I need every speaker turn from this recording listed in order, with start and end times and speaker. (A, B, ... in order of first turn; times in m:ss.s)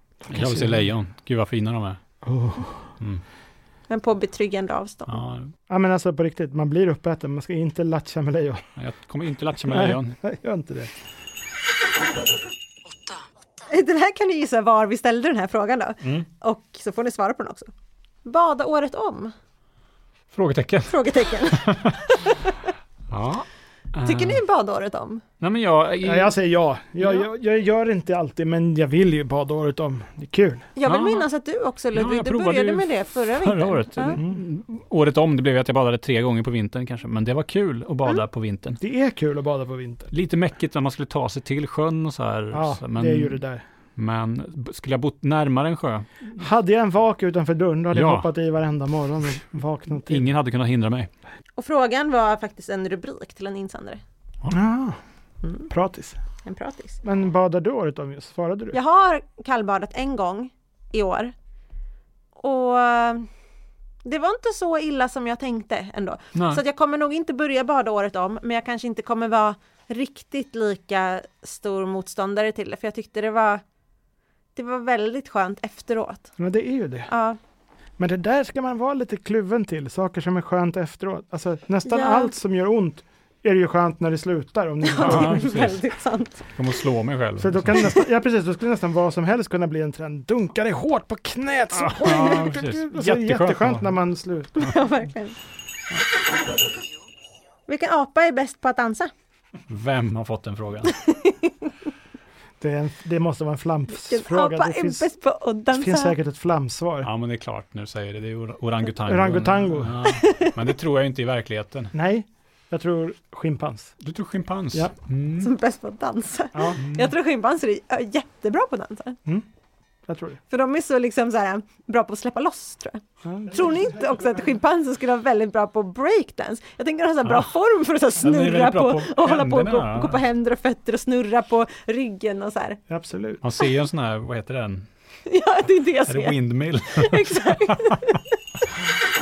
0:00.2-0:00.8 A
0:00.3-0:02.0 B
0:02.2-0:02.9 A
0:03.9-0:05.2 C
0:05.1-0:05.5 B
0:05.7-0:08.6 A
0:08.8-0:10.2 B
0:09.7-0:10.9 A
0:13.6-0:17.7 C
0:18.2-0:19.3 C
0:20.3-0:22.0 B
0:20.9-0:22.7 C
0:23.1-0:24.4 B
0:24.0-0:25.2 C
0:25.4-0:26.3 B
0:26.0-0:30.7 A
0:30.8-0:34.2 C
0:30.9-0:31.3 B
0:31.9-0:38.8 B
0:38.8-0:40.1 A
0:40.1-0:43.4 B
0:42.5-0:43.6 A
0:44.0-0:46.1 B
0:46.3-0:50.3 A
0:47.9-0:48.3 B
0:50.1-0:51.1 B
0:51.6-0:54.0 C
0:54.5-0:55.0 A
0:55.4-0:55.7 C
0:55.7-0:56.2 A
0:56.4-0:57.0 C
0:57.0-0:58.8 A
0:58.7-1:01.3 C
1:02.4-1:03.3 C
1:04.0-1:13.6 C
1:06.4-1:06.6 B
1:14.6-1:16.3 C
1:16.4-1:17.1 A
1:17.1-1:17.4 C
1:18.0-1:25.4 A
1:21.8-1:22.3 C
1:24.9-1:26.5 C
1:25.0-1:25.9 B
1:26.5-1:27.9 B
1:27.4-1:34.8 A
1:31.7-1:34.0 B
1:34.6-1:35.4 C
1:37.7-1:39.1 C
1:39.7-1:41.0 B
1:41.0-1:41.7 C
1:42.6-1:45.1 A
1:43.9-1:46.2 C
1:45.7-1:47.1 A
1:47.0-1:51.9 B
1:49.0-1:50.0 A
1:50.2-1:50.5 C
1:51.9-1:53.9 A
1:54.0-1:55.5 B
1:55.4-1:59.2 C
1:56.5-1:56.8 A
2:00.1-2:00.4 A
2:00.5-2:12.8 C
2:03.2-2:03.7 A
2:08.2-2:10.2 B
2:12.9-2:13.4 A
2:13.4-2:14.9 B
2:15.3-2:16.4 C
2:16.1-2:18.2 B
2:16.9-2:18.3 C